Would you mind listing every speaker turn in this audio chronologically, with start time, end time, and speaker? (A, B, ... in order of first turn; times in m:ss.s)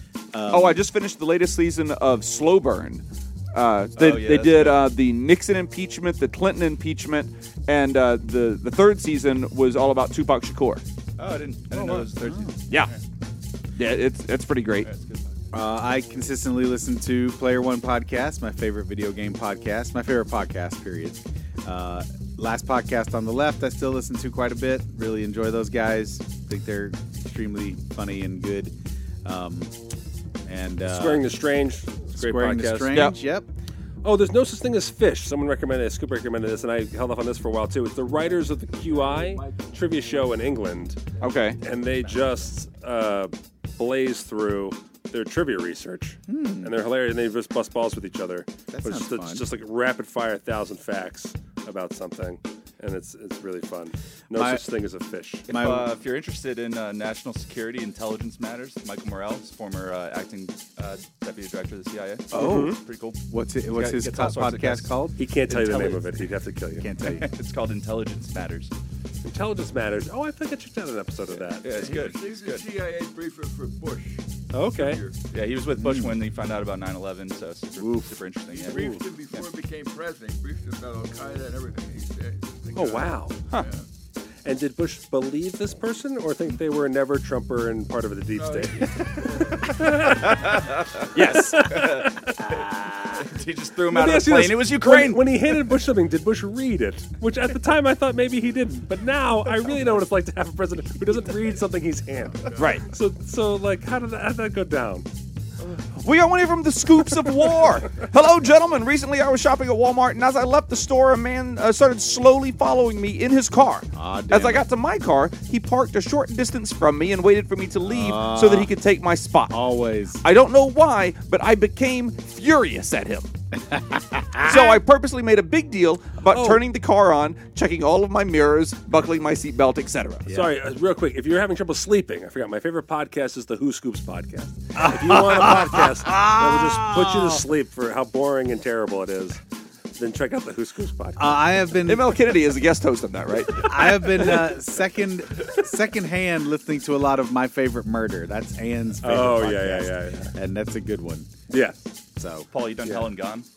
0:00.3-0:00.8 A
0:00.5-0:10.8 B
0:04.0-0:04.9 C
0:11.2-0:13.0 C
0:11.8-0:12.6 A
0:13.8-0:14.9 B
0:14.8-0:15.3 C
0:15.5-0:29.7 A
0:30.5-0:31.3 A
0:30.9-0:33.1 D
0:32.2-0:33.5 A
0:34.0-0:41.0 D
0:38.2-0:42.5 E
0:41.2-0:41.6 B
0:41.6-0:55.5 D
0:46.3-0:46.8 A
0:48.7-0:49.4 A
0:54.3-0:54.6 A
0:55.5-1:03.2 C
0:55.5-0:55.9 A
1:02.3-1:05.2 A
1:02.3-1:02.8 D
1:03.7-1:04.9 C
1:05.2-1:06.9 D
1:05.5-1:06.0 C
1:06.8-1:07.3 A
1:07.0-1:08.7 C
1:09.2-1:11.7 D
1:11.6-1:12.7 C
1:11.6-1:15.2 E
1:14.5-1:15.0 D
1:15.3-1:19.5 C
1:15.8-1:16.2 A
1:17.8-1:18.2 A
1:18.5-1:23.9 E
1:18.7-1:19.0 D
1:22.8-1:23.4 D
1:24.4-1:28.9 D
1:28.3-1:29.8 E
1:29.5-1:30.6 D
1:31.1-1:31.8 B
1:31.2-1:32.4 D
1:31.6-1:32.2 C
1:33.1-1:35.3 C
1:33.9-1:45.1 D
1:42.5-1:42.8 E
1:42.6-1:42.9 B
1:46.0-1:59.6 B
1:54.0-1:54.7 A
1:57.8-1:58.7 A
1:59.5-2:00.2 A
2:00.2-2:03.3 B
2:03.6-2:04.8 A
2:04.4-2:10.3 B
2:06.3-2:06.6 D
2:10.3-2:10.5 A
2:10.3-2:19.4 D
2:14.8-2:17.4 A
2:20.0-2:21.4 D
2:21.2-2:22.2 A
2:21.9-2:24.2 B
2:23.6-2:31.3 A
2:29.0-2:30.3 D
2:31.5-2:31.8 D
2:32.2-2:32.5 A
2:32.5-2:33.5 C